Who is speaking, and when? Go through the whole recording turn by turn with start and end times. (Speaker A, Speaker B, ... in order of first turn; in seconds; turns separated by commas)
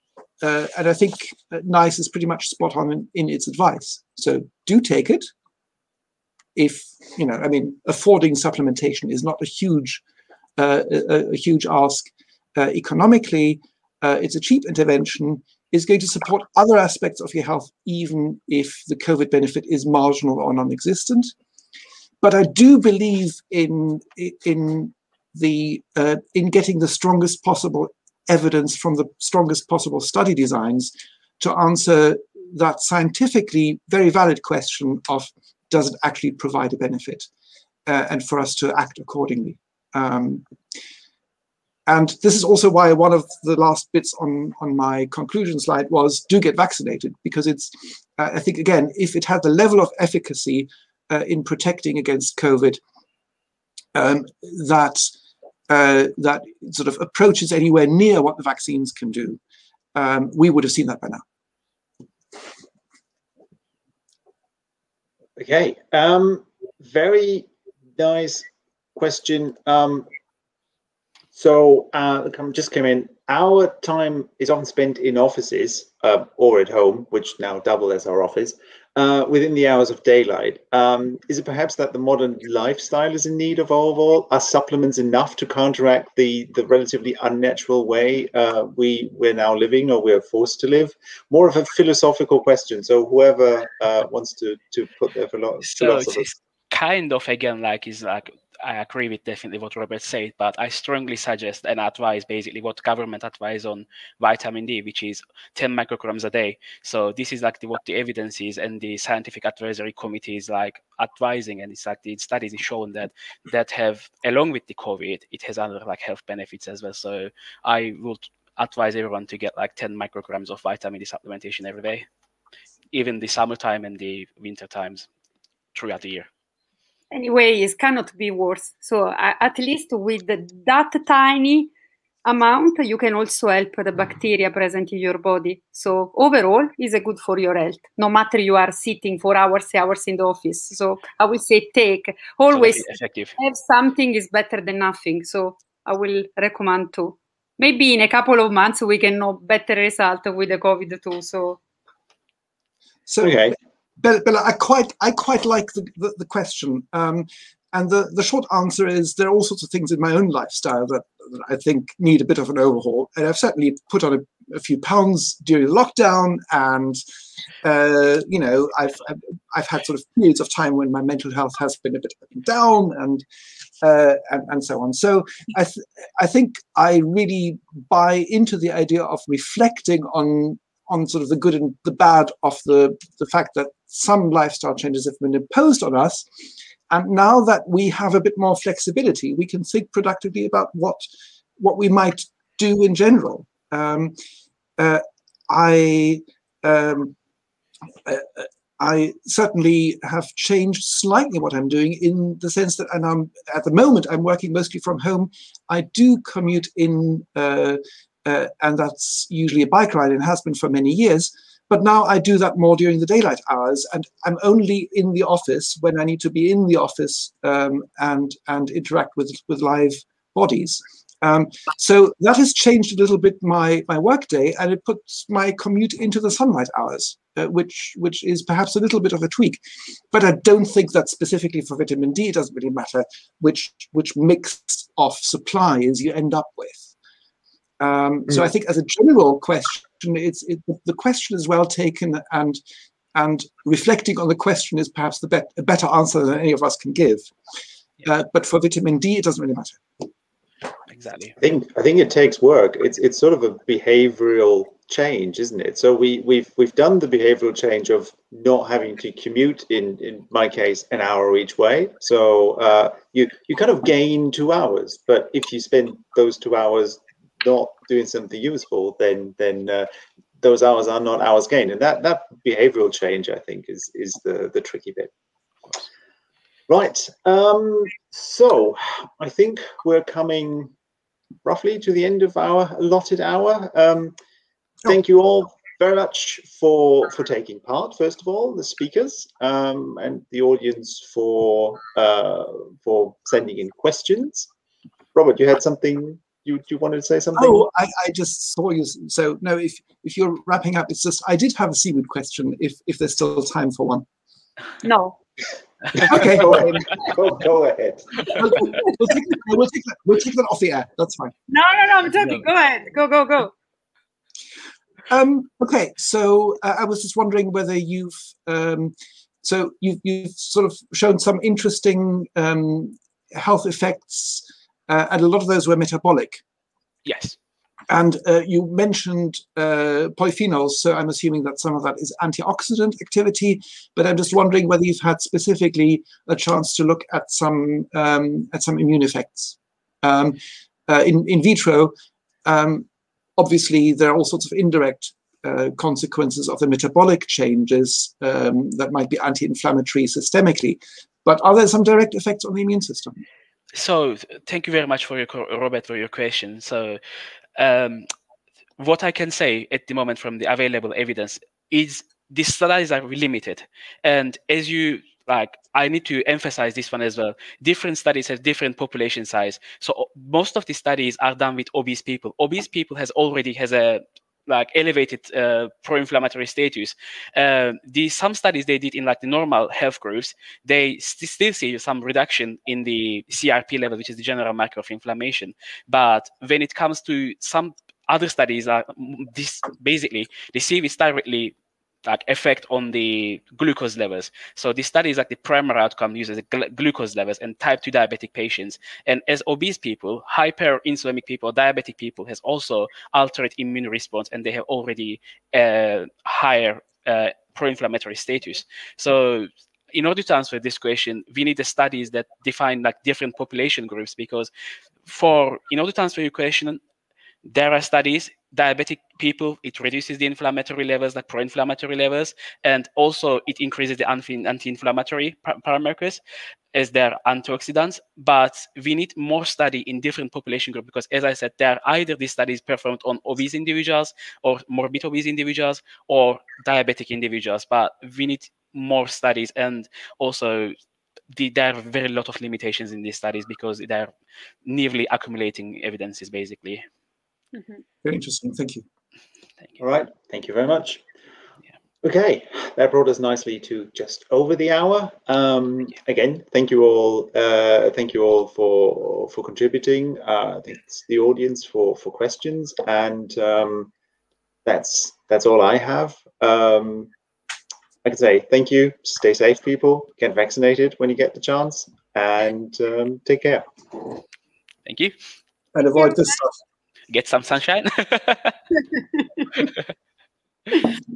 Speaker A: 0.4-5.3, Speaker A: 6.5-10.0, Speaker A: 10.6-21.3, Speaker A: 22.2-37.3, Speaker A: 37.9-40.5, Speaker A: 41.9-52.8, Speaker A: 53.9-55.1, Speaker A: 55.7-59.4, Speaker A: 59.9-61.2, Speaker B: 65.4-70.1, Speaker B: 71.3-96.3, Speaker C: 95.6-122.0, Speaker C: 122.9-125.1, Speaker C: 125.7-126.3, Speaker D: 127.1-131.7, Speaker D: 132.2-151.6, Speaker C: 142.5-143.3, Speaker A: 153.1-167.0, Speaker B: 153.2-153.6, Speaker A: 167.6-173.2, Speaker A: 173.8-186.3, Speaker A: 186.9-191.0, Speaker A: 191.6-194.2, Speaker A: 194.8-197.1, Speaker A: 198.0-236.9, Speaker A: 237.8-242.6, Speaker A: 243.1-247.3, Speaker A: 248.0-249.8, Speaker C: 250.9-251.4, Speaker B: 251.4-269.9, Speaker B: 270.4-275.1, Speaker B: 276.7-280.7, Speaker B: 281.4-284.1, Speaker B: 284.8-294.5, Speaker B: 295.1-297.6, Speaker A: 297.4-304.0, Speaker D: 304.8-305.2, Speaker B: 306.0-308.2, Speaker A: 306.1-306.9, Speaker A: 308.3-311.3, Speaker D: 311.5-313.5, Speaker A: 315.1-326.4, Speaker C: 327.0-327.4, Speaker A: 327.9-341.9, Speaker A: 342.4-342.9, Speaker A: 343.4-353.2, Speaker C: 353.7-357.0, Speaker C: 357.6-358.1, Speaker C: 358.8-414.5, Speaker C: 415.0-416.8, Speaker C: 417.4-426.2, Speaker C: 426.7-440.7, Speaker C: 441.3-444.1, Speaker C: 444.6-446.8, Speaker D: 447.5-447.8, Speaker A: 448.0-448.8, Speaker B: 449.8-451.0, Speaker B: 452.0-463.9, Speaker B: 464.6-467.1, Speaker B: 468.0-473.7, Speaker C: 474.9-475.1, Speaker A: 475.7-476.5, Speaker C: 477.1-478.6